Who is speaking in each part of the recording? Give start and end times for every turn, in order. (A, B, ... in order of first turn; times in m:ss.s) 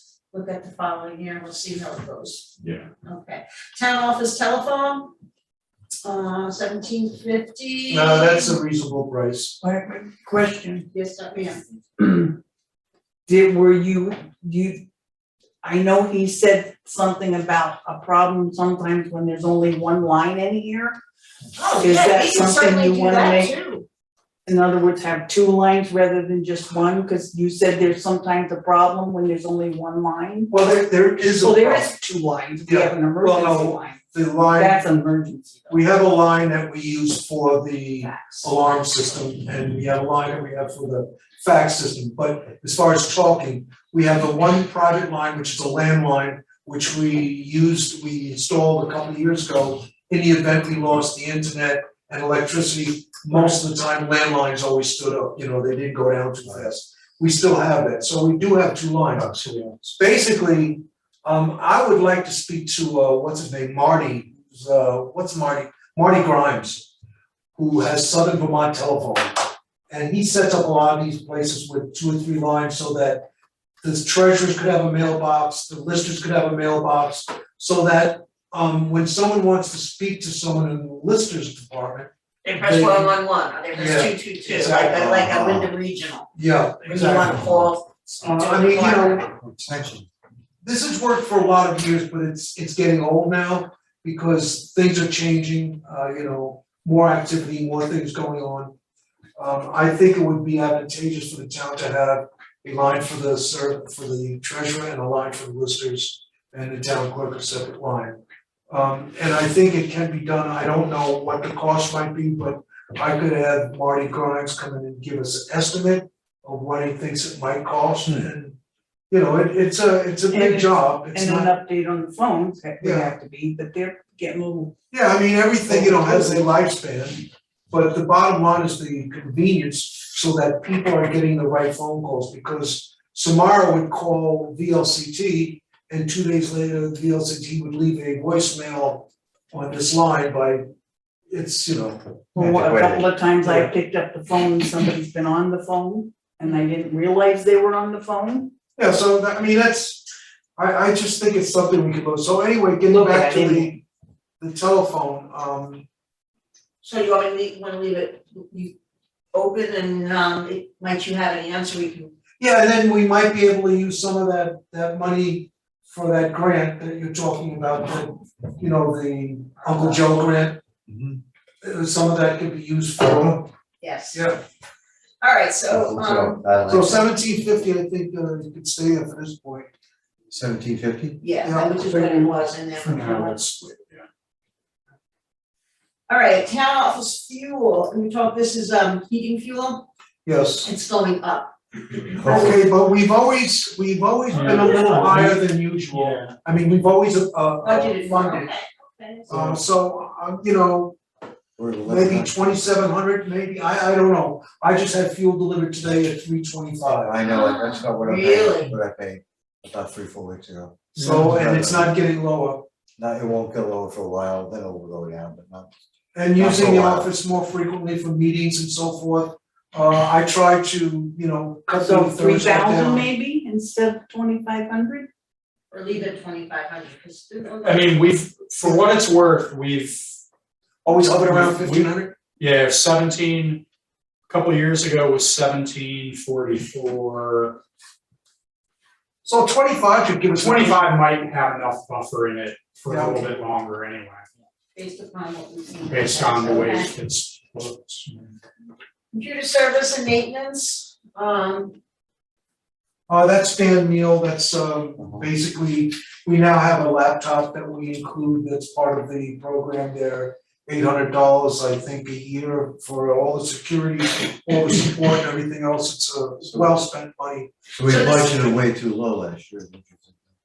0:00.3-0:02.5 A
0:02.6-0:02.9 B
0:03.0-0:05.1 A
0:06.0-0:08.6 A
0:07.9-0:09.6 C
0:09.6-0:10.9 D
0:10.9-0:11.6 A
0:12.0-0:12.4 D
0:13.2-0:14.8 D
0:15.6-0:21.0 D
0:21.5-0:23.8 A
0:21.8-0:23.5 D
0:24.4-0:30.5 D
0:30.5-0:31.9 C
0:31.3-0:34.0 D
0:32.6-0:34.8 C
0:34.5-0:35.7 D
0:35.7-1:06.9 C
0:38.0-0:38.4 D
0:59.2-0:59.7 B
1:07.6-1:13.3 C
1:13.8-1:23.2 C
1:22.4-1:26.3 A
1:23.7-1:25.2 C
1:25.0-1:25.7 E
1:26.3-1:27.4 C
1:26.8-1:29.3 A
1:28.2-1:29.3 C
1:29.4-1:30.1 E
1:30.6-1:38.7 C
1:39.4-1:58.6 C
1:59.1-2:01.5 C
2:00.3-2:04.7 D
2:02.8-2:03.1 C
2:04.9-2:20.6 C
2:05.7-2:06.5 D
2:21.3-2:22.2 C
2:22.3-2:28.5 D
2:22.4-2:23.1 E
2:23.4-2:23.7 C
2:28.8-2:30.0 C
2:30.6-2:33.8 C
2:32.9-2:33.8 D
2:34.4-2:35.8 C
2:36.8-2:38.8 A
2:39.3-2:42.1 A
2:42.4-2:50.6 C
2:49.7-2:50.0 A
2:50.9-2:51.2 E
2:51.6-2:53.5 C
2:53.0-2:53.4 E
2:53.8-2:54.2 A
2:54.1-2:54.4 C
2:55.2-2:56.6 A
2:55.7-2:57.1 E
2:56.7-2:59.7 C
3:00.3-3:01.2 E
3:01.2-3:03.4 A
3:01.4-3:01.8 C
3:01.8-3:02.3 D
3:02.8-3:04.0 B
3:06.1-3:09.9 A
3:10.2-3:10.7 C
3:10.6-3:12.6 A
3:12.1-3:12.6 E
3:12.3-3:18.5 C
3:14.3-3:16.3 B
3:14.5-3:14.9 A
3:17.6-3:19.3 A
3:19.3-3:19.6 E
3:19.3-3:21.0 C
3:21.6-3:22.6 E
3:21.8-3:27.1 C
3:27.0-3:32.0 E
3:27.2-3:28.7 A
3:30.9-3:32.6 C
3:31.0-3:31.3 B
3:33.0-3:35.7 E
3:36.1-3:43.1 C
3:36.4-3:37.1 E
3:41.7-3:45.1 D
3:45.7-3:47.9 A
3:47.6-3:50.2 B
3:48.6-3:49.0 C
3:50.8-3:52.1 C
3:51.2-3:53.6 B
3:54.3-3:57.6 B
3:59.2-4:00.8 C
4:00.4-4:04.3 B
4:02.9-4:03.3 C
4:04.7-4:06.9 A
4:05.9-4:08.4 B
4:09.1-4:11.8 A
4:13.1-4:27.5 C
4:27.8-4:30.2 E
4:27.8-4:28.4 A